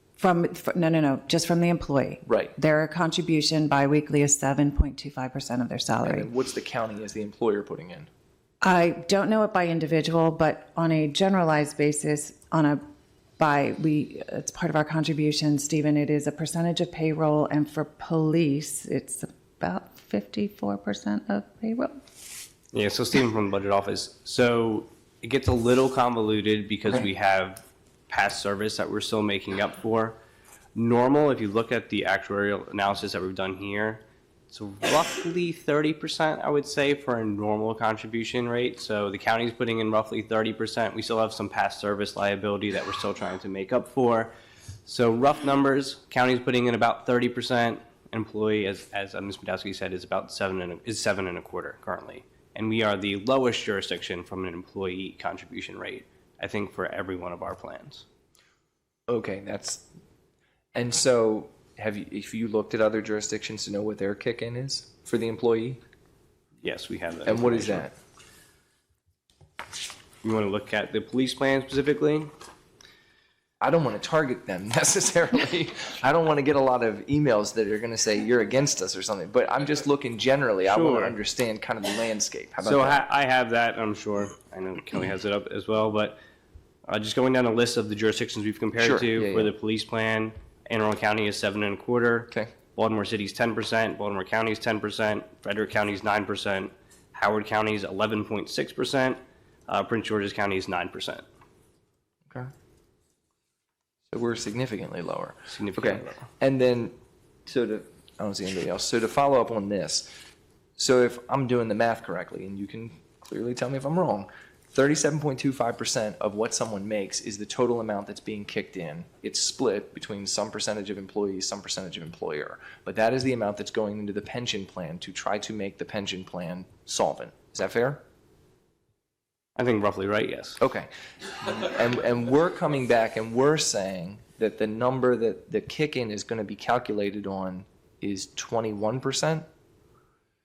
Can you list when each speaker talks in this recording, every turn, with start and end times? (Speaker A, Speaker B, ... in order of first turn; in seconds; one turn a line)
Speaker A: 0.2-6.3
Speaker B: 2.2-2.5
Speaker B: 6.0-8.1
Speaker A: 8.6-12.8
Speaker A: 13.4-22.0
Speaker C: 22.7-30.2
Speaker C: 30.7-44.3
Speaker C: 44.9-58.0
Speaker B: 59.1-59.8
Speaker B: 60.7-65.8
Speaker C: 66.6-67.9
Speaker B: 67.2-67.9
Speaker C: 70.2-72.3
Speaker B: 73.6-83.0
Speaker C: 80.6-81.2
Speaker C: 82.6-86.2
Speaker C: 86.9-101.2
Speaker B: 88.8-89.5
Speaker B: 104.1-106.9
Speaker C: 105.5-106.2
Speaker B: 107.5-110.1
Speaker B: 110.8-128.0
Speaker C: 129.6-130.6
Speaker B: 130.6-139.4